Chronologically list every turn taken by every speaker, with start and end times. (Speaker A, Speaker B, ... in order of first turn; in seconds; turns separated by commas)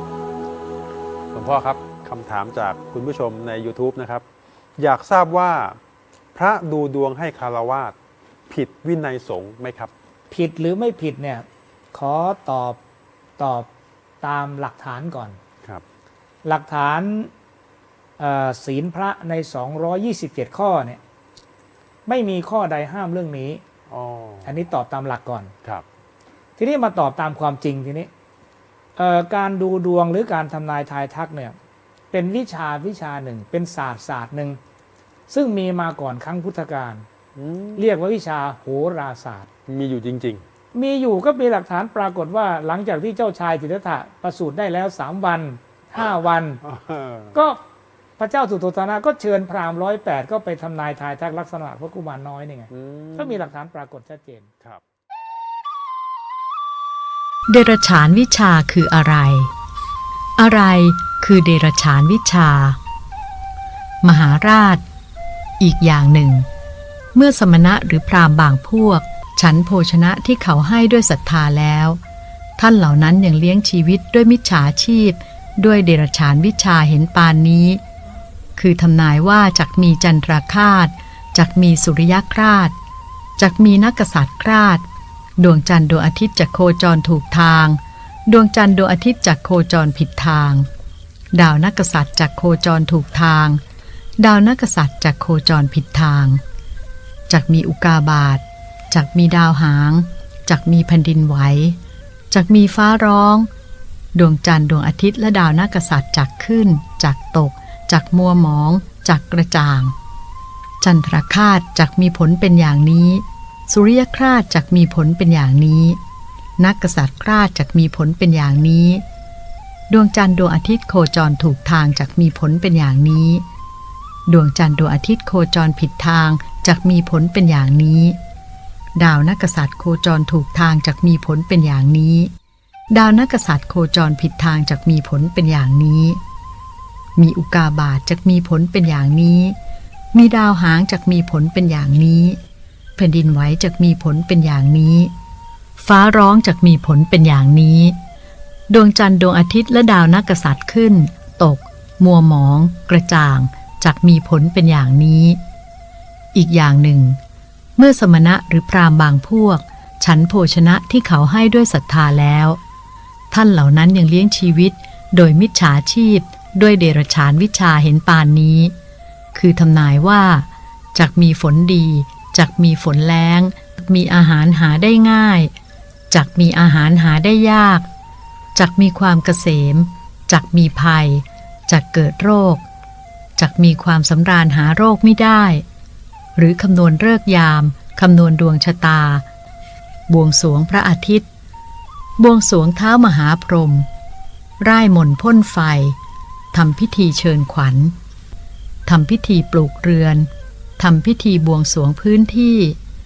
Speaker A: 1.3-4.2, Speaker A: 4.8-5.8, Speaker A: 6.3-7.9, Speaker A: 8.5-9.9, Speaker B: 10.3-12.8, Speaker B: 13.4-13.7, Speaker B: 14.2-15.4, Speaker B: 16.4-17.3, Speaker B: 18.2-21.0, Speaker B: 22.1-23.6, Speaker A: 23.9-24.6, Speaker B: 24.4-25.5, Speaker B: 26.6-28.1, Speaker B: 28.9-31.6, Speaker B: 32.1-34.6, Speaker B: 35.3-37.1, Speaker A: 37.4-37.9, Speaker B: 37.8-39.5, Speaker A: 39.7-40.4, Speaker B: 40.7-46.6, Speaker A: 46.6-47.4, Speaker B: 47.3-47.6, Speaker B: 48.2-54.5, Speaker A: 52.7-53.5, Speaker C: 57.5-59.5, Speaker C: 60.4-62.8, Speaker C: 64.0-64.8, Speaker C: 65.6-66.5, Speaker C: 67.1-72.0, Speaker C: 72.6-77.8, Speaker C: 78.5-82.7, Speaker C: 83.4-84.8, Speaker C: 85.4-90.7, Speaker C: 91.3-93.6, Speaker C: 94.2-96.4, Speaker C: 97.3-101.8, Speaker C: 102.3-103.5, Speaker C: 104.1-109.9, Speaker C: 110.8-116.0, Speaker C: 116.6-119.0, Speaker C: 119.9-123.4, Speaker C: 124.3-128.2, Speaker C: 128.9-132.3, Speaker C: 132.9-136.2, Speaker C: 137.2-139.6, Speaker C: 140.1-142.4, Speaker C: 143.0-145.1, Speaker C: 145.8-147.9, Speaker C: 148.7-155.4, Speaker C: 156.3-157.2, Speaker C: 157.8-162.6, Speaker C: 163.3-168.7, Speaker C: 169.3-175.5, Speaker C: 176.1-177.8, Speaker C: 178.5-182.6, Speaker C: 183.4-185.6, Speaker C: 186.3-189.2, Speaker C: 190.1-191.3, Speaker C: 192.2-193.9, Speaker C: 194.6-196.0, Speaker C: 196.5-197.9, Speaker C: 198.8-200.3, Speaker C: 200.8-202.8